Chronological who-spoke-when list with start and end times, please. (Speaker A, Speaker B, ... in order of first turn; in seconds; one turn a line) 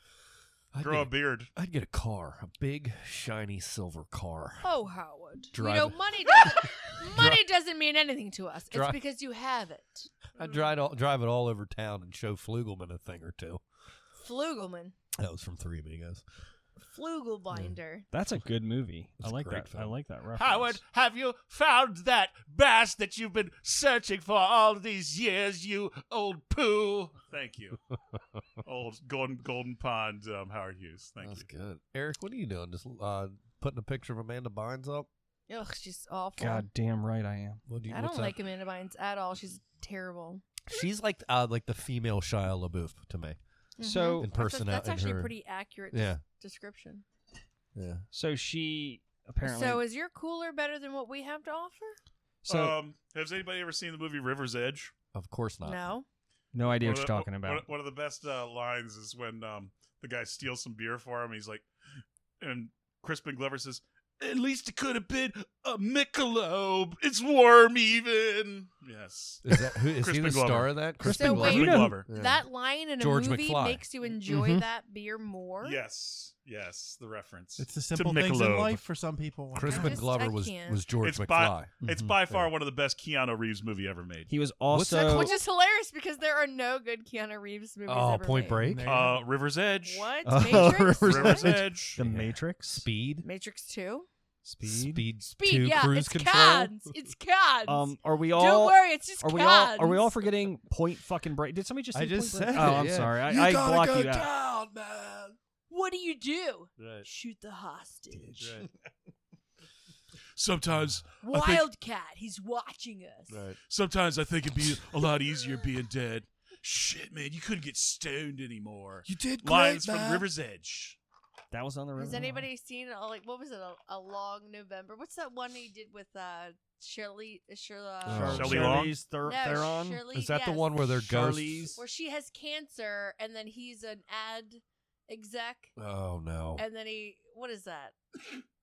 Speaker A: 0.7-4.7
Speaker B: 0.8-1.5
Speaker C: 4.6-10.6
Speaker A: 5.5-7.4
Speaker A: 8.7-9.0
Speaker A: 10.4-13.6
Speaker C: 14.2-14.9
Speaker A: 15.2-16.2
Speaker C: 16.8-18.1
Speaker D: 18.1-20.8
Speaker A: 19.2-19.9
Speaker B: 20.4-27.8
Speaker B: 28.6-31.5
Speaker A: 31.2-35.1
Speaker C: 35.5-36.7
Speaker D: 36.4-37.6
Speaker A: 37.7-38.4
Speaker C: 37.9-40.4
Speaker A: 40.7-43.4
Speaker C: 43.8-47.0
Speaker D: 43.8-44.2
Speaker A: 44.2-45.3
Speaker A: 45.9-46.2
Speaker A: 47.7-48.0
Speaker D: 48.1-49.8
Speaker C: 49.4-52.0
Speaker D: 52.4-52.8
Speaker B: 52.5-54.9
Speaker A: 55.1-55.9
Speaker C: 55.6-56.0
Speaker D: 56.5-57.7
Speaker B: 56.8-61.6
Speaker B: 62.4-70.8
Speaker A: 69.4-72.4
Speaker D: 71.0-72.0
Speaker C: 71.1-75.8
Speaker B: 71.3-72.1
Speaker A: 73.0-73.8
Speaker D: 74.2-74.7
Speaker B: 75.6-78.8
Speaker E: 77.6-80.0
Speaker A: 79.5-82.4
Speaker C: 79.7-80.8
Speaker B: 81.0-84.3
Speaker D: 84.3-85.3
Speaker A: 84.7-85.4
Speaker C: 85.0-88.6
Speaker A: 87.9-88.9
Speaker E: 88.6-89.2
Speaker B: 88.8-90.1
Speaker C: 89.8-91.5
Speaker D: 90.2-92.9
Speaker A: 90.5-90.8
Speaker B: 91.0-92.0
Speaker A: 92.0-93.2
Speaker C: 93.2-94.1
Speaker D: 94.4-95.0
Speaker A: 94.6-96.8
Speaker C: 95.2-100.2
Speaker D: 97.7-104.3
Speaker A: 101.9-105.4
Speaker C: 105.7-108.5
Speaker A: 106.8-107.1
Speaker A: 108.4-108.7
Speaker B: 110.4-111.7
Speaker C: 111.2-113.4
Speaker A: 113.3-113.6
Speaker B: 113.7-121.0
Speaker A: 119.0-120.3
Speaker D: 121.5-122.5
Speaker C: 122.0-130.8
Speaker A: 128.0-128.9
Speaker D: 128.1-130.0
Speaker B: 128.3-129.0
Speaker A: 130.1-131.7
Speaker D: 131.0-131.8
Speaker C: 131.8-135.7
Speaker A: 135.8-136.6
Speaker C: 136.6-138.0